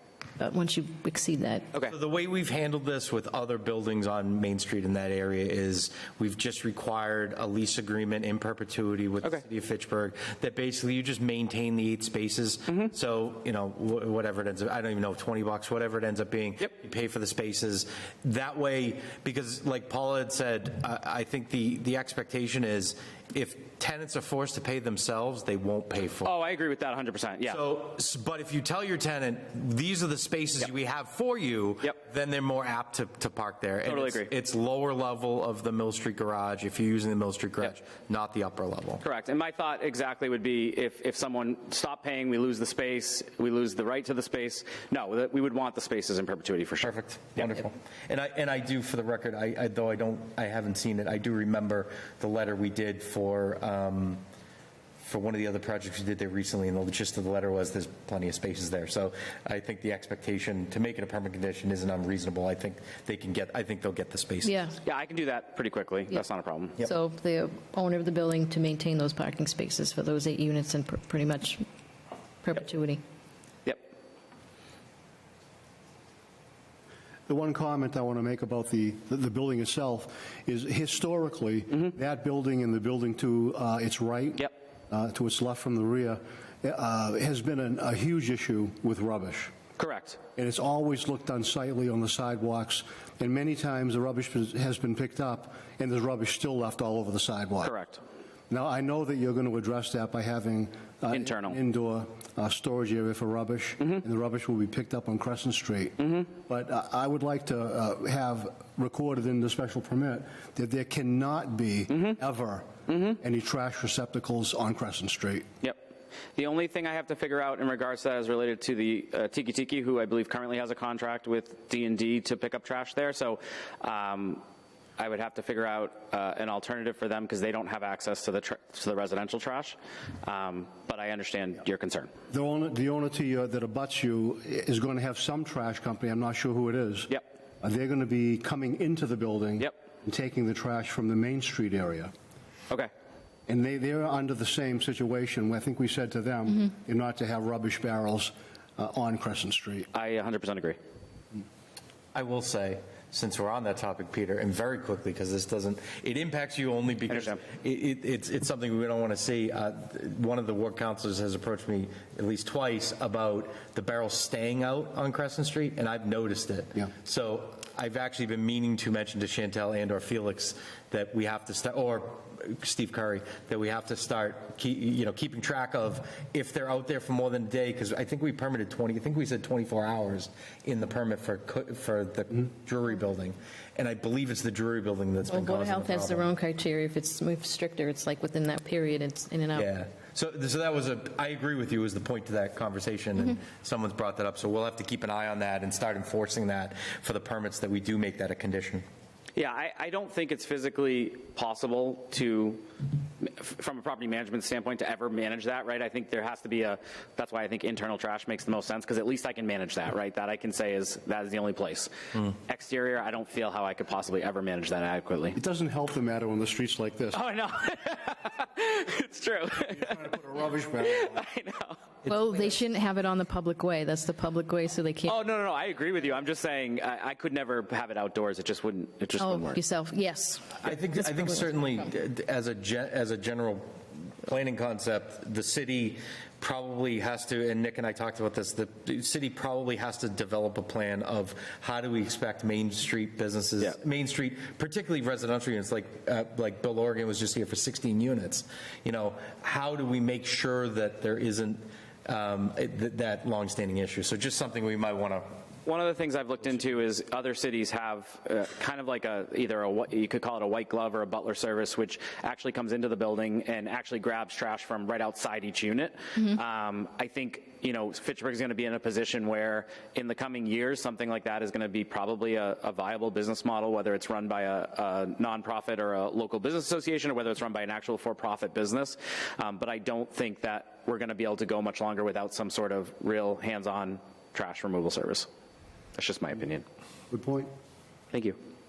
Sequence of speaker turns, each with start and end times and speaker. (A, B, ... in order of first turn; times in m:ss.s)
0:00.4-0:01.7 A
0:01.8-0:26.3 B
0:26.2-0:27.6 C
0:27.4-0:39.0 B
0:33.8-0:34.3 C
0:39.0-0:47.5 C
0:46.8-0:54.2 B
0:55.0-1:04.6 B
1:04.4-1:04.8 A
1:04.8-1:06.8 C
1:06.8-1:11.6 A
1:12.4-1:13.0 A
1:17.3-1:29.5 D
1:29.8-1:30.2 C
1:30.4-1:37.7 D
1:37.6-1:38.0 C
1:38.5-1:52.7 D
1:41.1-1:41.6 C
1:52.9-1:53.2 C
1:53.2-1:55.5 D
1:55.6-2:04.4 C
2:05.0-2:12.1 C
2:12.3-2:22.1 D
2:23.5-2:29.9 D
2:29.9-2:30.8 C
2:32.1-3:06.3 B
2:37.1-2:37.4 C
3:05.3-3:09.7 A
3:09.5-3:18.8 B
3:19.3-3:22.6 C
3:23.2-3:35.4 C
3:35.3-3:37.2 D
3:37.1-3:40.1 C
3:39.7-3:41.2 D
3:40.8-3:41.8 C
3:42.0-3:45.2 A
3:45.0-3:49.6 C
3:49.2-3:51.5 A
3:50.6-4:15.3 B
4:15.6-4:45.3 C
4:45.9-4:46.6 C
4:47.1-4:47.5 D
4:48.1-4:48.4 C